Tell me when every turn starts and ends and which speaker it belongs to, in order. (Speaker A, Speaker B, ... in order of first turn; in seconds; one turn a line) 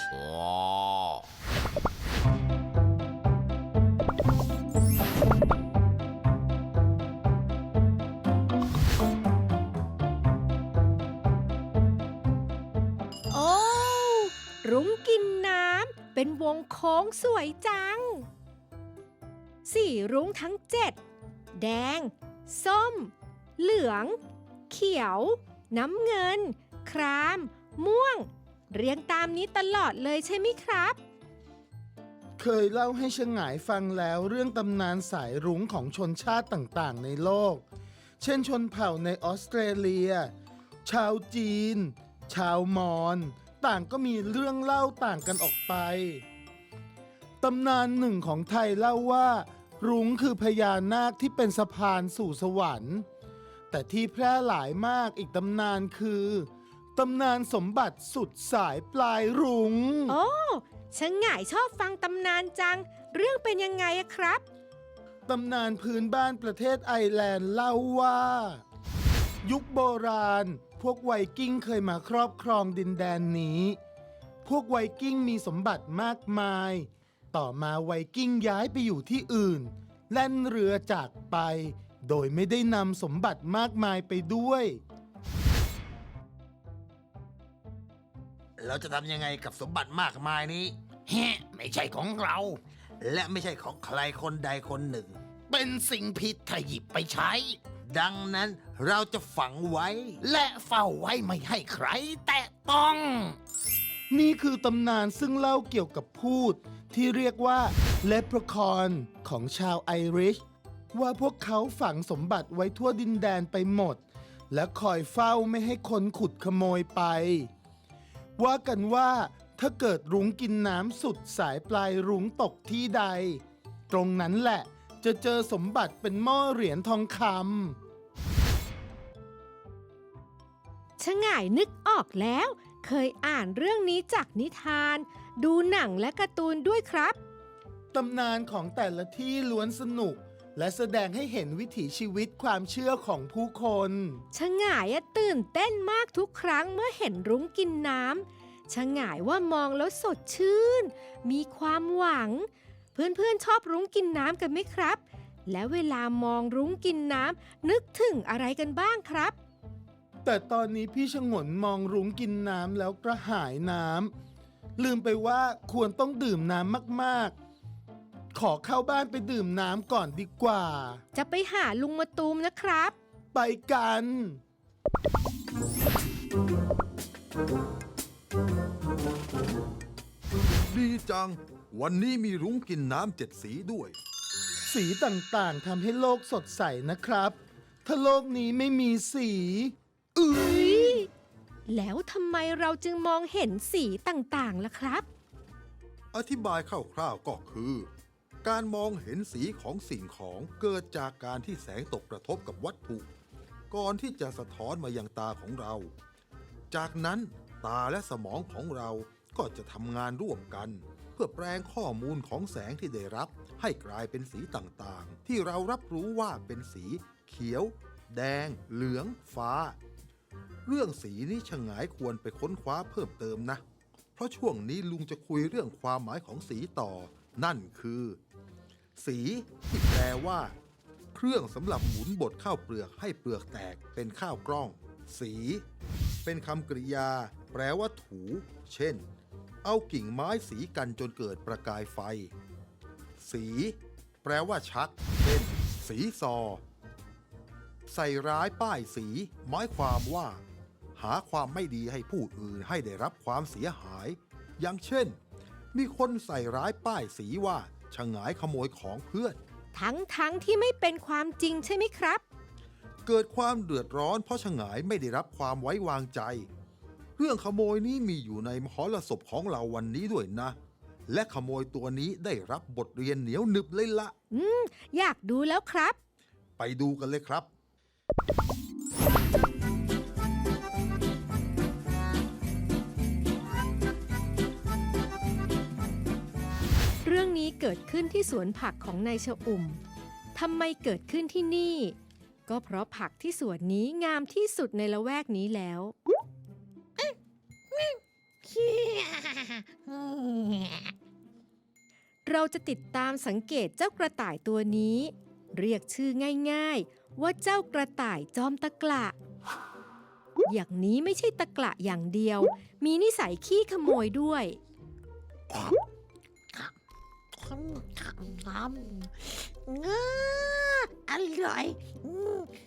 Speaker A: 13.3-18.3
Speaker A: 19.6-21.0
Speaker A: 21.6-24.2
Speaker A: 24.7-31.0
Speaker B: 32.4-37.6
Speaker B: 38.2-40.3
Speaker B: 40.9-46.2
Speaker B: 47.4-53.0
Speaker B: 53.7-60.2
Speaker A: 60.1-64.4
Speaker B: 65.3-68.6
Speaker B: 69.4-73.8
Speaker B: 74.5-84.8
Speaker C: 88.6-103.3
Speaker B: 104.1-110.4
Speaker B: 110.9-117.5
Speaker B: 118.4-127.8
Speaker A: 131.0-137.2
Speaker B: 137.9-144.2
Speaker A: 144.3-159.4
Speaker B: 160.2-164.1
Speaker B: 164.8-167.3
Speaker B: 168.3-171.0
Speaker A: 171.1-172.9
Speaker B: 173.3-174.4
Speaker D: 180.4-184.0
Speaker B: 184.7-190.9
Speaker A: 190.3-191.1
Speaker A: 191.7-195.1
Speaker D: 196.1-197.9
Speaker D: 198.4-203.1
Speaker D: 203.7-205.9
Speaker D: 206.7-219.8
Speaker D: 220.7-223.6
Speaker D: 224.2-228.2
Speaker D: 229.0-230.6
Speaker D: 231.1-235.6
Speaker D: 236.2-239.1
Speaker D: 239.6-242.3
Speaker D: 243.2-246.6
Speaker D: 247.9-250.4
Speaker D: 251.0-255.2
Speaker D: 255.7-259.4
Speaker A: 259.7-262.2
Speaker D: 263.1-266.5
Speaker D: 267.2-270.6
Speaker D: 271.1-274.1
Speaker A: 274.3-276.0
Speaker D: 276.6-277.5
Speaker A: 287.0-289.8
Speaker A: 290.4-292.0
Speaker A: 292.5-295.9
Speaker E: 297.7-300.9
Speaker A: 302.2-309.2
Speaker A: 310.5-314.6
Speaker E: 315.5-315.8
Speaker E: 317.4-322.5